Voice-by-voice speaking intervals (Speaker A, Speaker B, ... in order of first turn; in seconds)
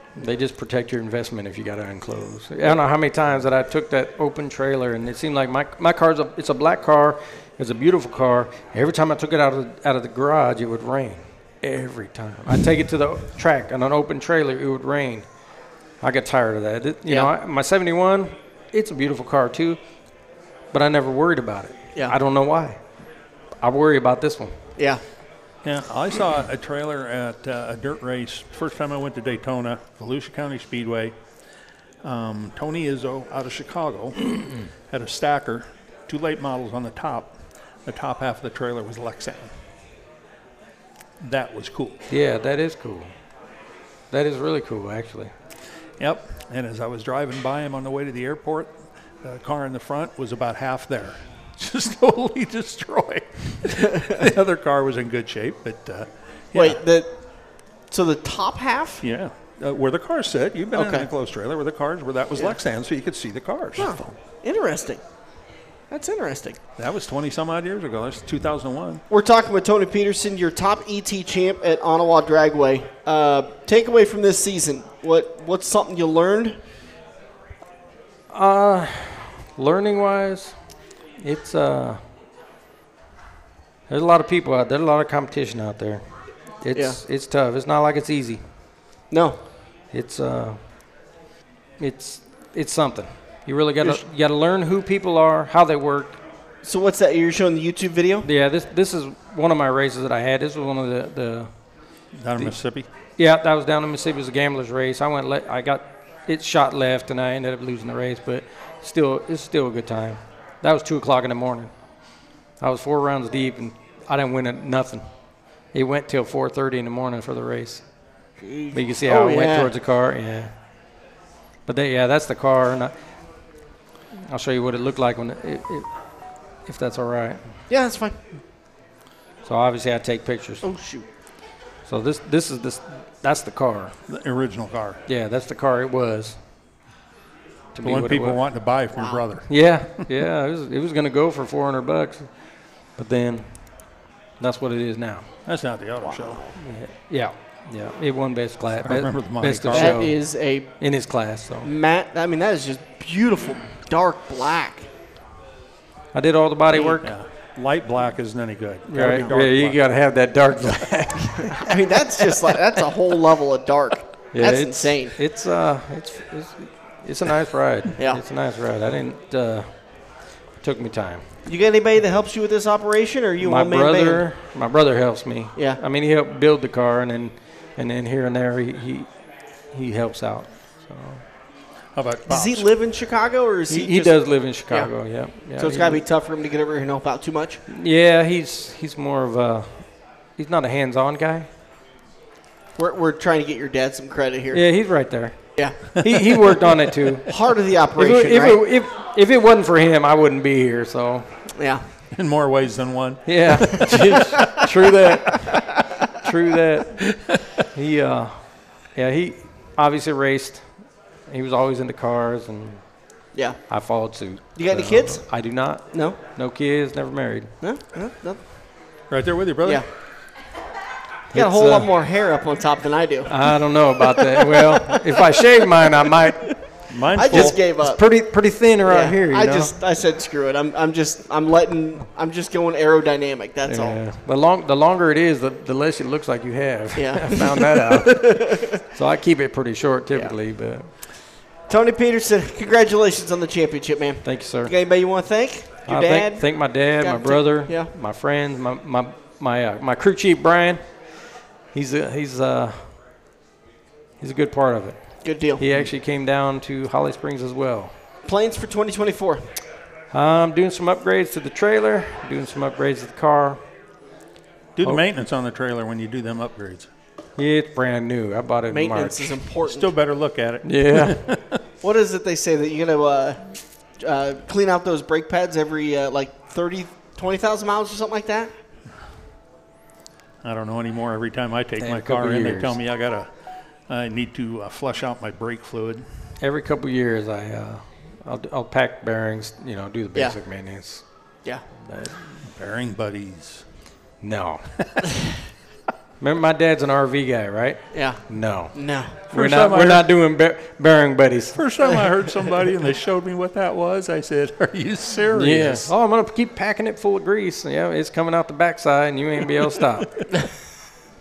Speaker A: 0.1-22.8, 23.6-24.8, 42.1-43.3, 44.1-45.3, 78.3-82.0, 83.9-88.4, 89.9-90.9, 91.8-96.2, 98.2-118.2, 118.7-120.8, 121.7-123.7, 124.3-127.6, 129.4-130.8, 131.8-134.0, 135.1-136.4, 137.7-138.6, 139.5-145.4, 146.5-151.7, 156.1-157.1, 158.9-161.7, 164.3-171.2, 173.4-181.3, 183.7-186.0, 187.7-191.5, 194.5-201.6, 203.2-207.2, 207.7-217.5, 221.3-221.9, 223.3-229.8, 233.7-240.9, 244.2-244.9, 245.8-253.0, 254.2-257.9, 260.1-263.7, 267.4-269.5, 270.6-271.3, 281.8-282.8, 286.4-292.4, 294.2-294.7, 296.2-301.6, 305.3-310.1
Speaker B: 17.0-17.3, 24.8-25.0, 56.5-59.0, 60.7-61.1, 63.8-65.1, 65.9-66.6, 69.1-76.6, 86.7-87.0, 89.1-89.4, 96.6-98.2, 118.4-119.7, 127.7-128.2, 130.6-131.1, 138.9-139.2, 146.0-146.6, 149.7-154.9, 156.7-157.0, 161.5-165.2, 171.4-174.2, 182.3-187.6, 192.8-196.2, 197.3-198.6, 201.6-201.8, 213.3-216.2, 217.6-218.4, 221.3-225.2, 226.8-234.0, 236.9-238.7, 240.1-241.1, 241.7-247.9, 255.2-255.6, 258.2-259.4, 268.7-269.9, 271.8-278.5, 290.1-290.9, 297.9-299.1
Speaker C: 25.6-31.4, 32.0-39.5, 41.2-42.0, 46.0-56.8, 59.0-64.1, 66.8-69.0, 102.1-102.9, 134.1-135.0, 137.8-140.1, 145.4-146.5, 148.8-150.0, 157.0-159.8, 181.9-182.7, 196.1-196.5, 202.1-204.6, 219.1-219.8, 226.9-227.6, 255.7-255.9, 264.8-266.9, 269.6-271.5, 280.4-286.1, 292.4-293.9, 299.3-300.1, 301.5-305.9